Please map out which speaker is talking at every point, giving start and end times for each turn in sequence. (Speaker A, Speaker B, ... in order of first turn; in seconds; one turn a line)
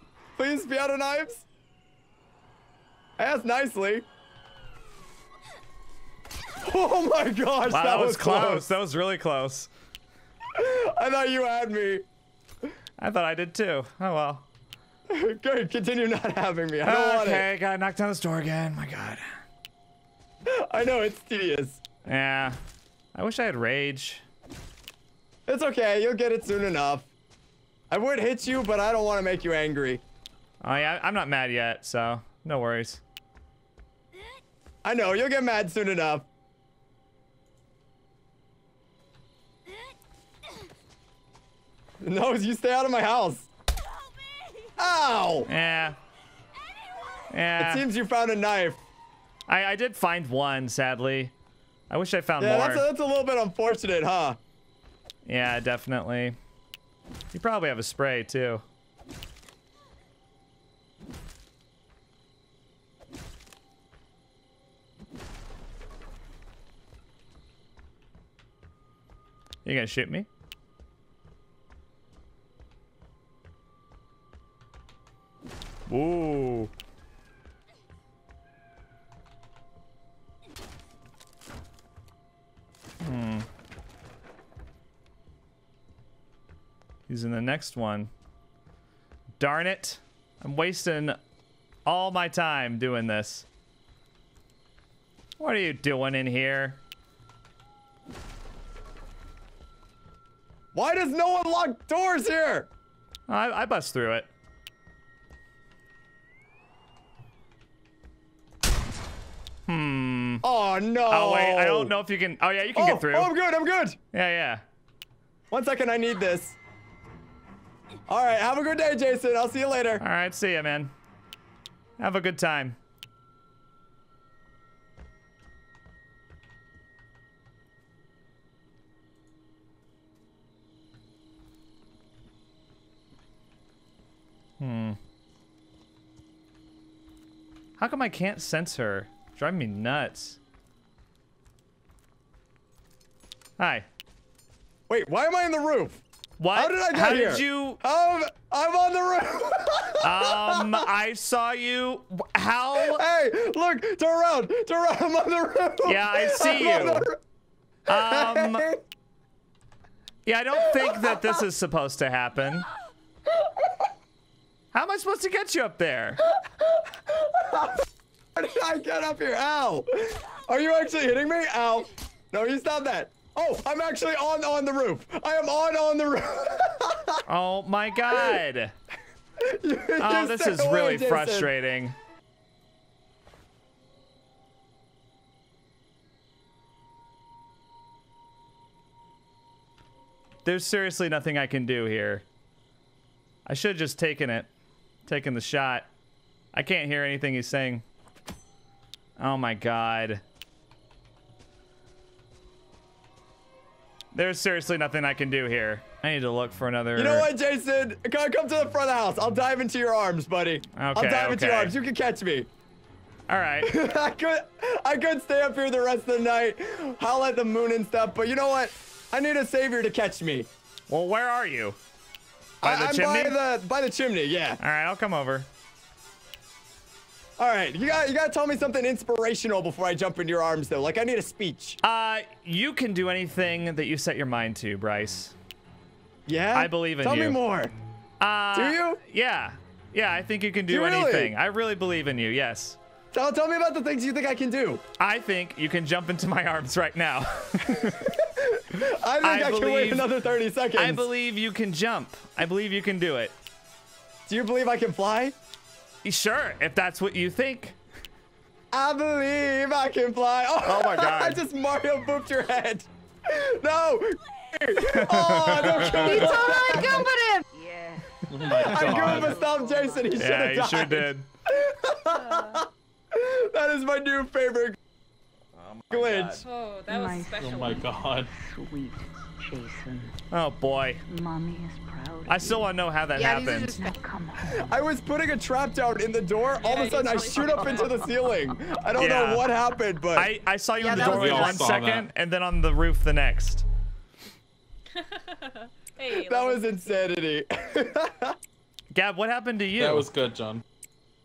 Speaker A: 0.3-1.4
Speaker A: 3.2-4.0
Speaker A: 6.6-8.7
Speaker B: 7.7-9.7
Speaker A: 10.5-12.0
Speaker B: 13.0-14.4
Speaker A: 15.1-17.5
Speaker B: 16.8-19.2
Speaker A: 20.4-21.8
Speaker B: 22.0-22.6
Speaker B: 23.1-24.2
Speaker A: 25.4-27.1
Speaker A: 27.9-30.0
Speaker B: 30.6-33.0
Speaker A: 34.8-36.2
Speaker A: 42.0-43.5
Speaker A: 44.8-45.5
Speaker B: 45.5-46.0
Speaker B: 47.3-47.9
Speaker A: 47.6-48.8
Speaker B: 49.5-51.3
Speaker B: 51.9-52.9
Speaker A: 52.4-54.4
Speaker B: 55.2-56.4
Speaker B: 57.3-58.6
Speaker B: 69.6-70.3
Speaker B: 75.9-76.7
Speaker B: 83.0-83.5
Speaker B: 87.1-88.1
Speaker B: 89.4-91.2
Speaker B: 91.8-93.5
Speaker B: 95.4-96.8
Speaker A: 100.7-102.7
Speaker B: 103.3-104.3
Speaker B: 109.7-110.4
Speaker A: 110.4-112.0
Speaker B: 111.1-113.3
Speaker A: 112.7-114.0
Speaker B: 114.1-114.6
Speaker A: 115.5-116.5
Speaker A: 118.1-120.0
Speaker B: 120.0-120.9
Speaker B: 122.0-122.8
Speaker B: 134.6-135.0
Speaker B: 137.8-140.4
Speaker B: 143.6-143.9
Speaker A: 144.9-146.0
Speaker B: 146.4-147.8
Speaker A: 146.5-150.8
Speaker B: 150.0-153.0
Speaker A: 152.8-157.2
Speaker B: 155.8-157.1
Speaker B: 157.9-158.7
Speaker A: 157.9-158.8
Speaker B: 160.2-162.7
Speaker A: 160.7-161.2
Speaker A: 163.4-163.7
Speaker B: 164.7-166.2
Speaker A: 166.3-177.2
Speaker B: 177.3-178.7
Speaker A: 178.1-178.4
Speaker A: 179.4-181.5
Speaker B: 180.0-181.9
Speaker B: 190.4-192.2
Speaker B: 193.4-194.5
Speaker B: 195.1-195.9
Speaker B: 196.5-197.8
Speaker B: 199.2-200.2
Speaker B: 204.1-207.3
Speaker A: 206.9-212.5
Speaker B: 210.8-211.8
Speaker B: 213.3-213.7
Speaker A: 213.6-220.5
Speaker B: 220.9-221.8
Speaker B: 222.6-223.4
Speaker A: 222.6-224.6
Speaker B: 224.6-225.5
Speaker A: 227.4-231.8
Speaker B: 231.8-235.3
Speaker A: 236.2-237.7
Speaker B: 236.5-237.4
Speaker B: 238.2-242.8
Speaker A: 238.5-239.0
Speaker A: 240.7-241.3
Speaker A: 243.1-244.8
Speaker B: 245.0-248.1
Speaker A: 247.6-251.1
Speaker B: 249.2-250.1
Speaker B: 250.7-253.3
Speaker A: 254.2-255.3
Speaker B: 256.0-257.8
Speaker A: 258.7-267.1
Speaker B: 260.6-261.4
Speaker B: 264.8-266.1
Speaker C: 265.8-267.4
Speaker D: 267.5-270.7
Speaker E: 268.3-269.4
Speaker A: 268.5-274.8
Speaker B: 270.2-271.3
Speaker D: 272.1-272.6
Speaker B: 275.6-276.4
Speaker A: 275.9-276.4
Speaker F: 276.4-278.2
Speaker D: 276.9-280.1
Speaker E: 277.4-278.3
Speaker B: 280.3-281.0
Speaker D: 281.1-282.8
Speaker B: 282.3-283.8
Speaker C: 283.1-283.9
Speaker D: 283.6-284.7
Speaker A: 284.5-290.3
Speaker F: 286.5-288.2
Speaker D: 286.7-288.6
Speaker B: 288.9-289.5
Speaker B: 290.1-293.6
Speaker C: 290.8-291.7
Speaker E: 290.8-292.1
Speaker F: 294.9-297.0
Speaker A: 296.1-298.4
Speaker B: 298.9-300.1
Speaker E: 299.8-300.6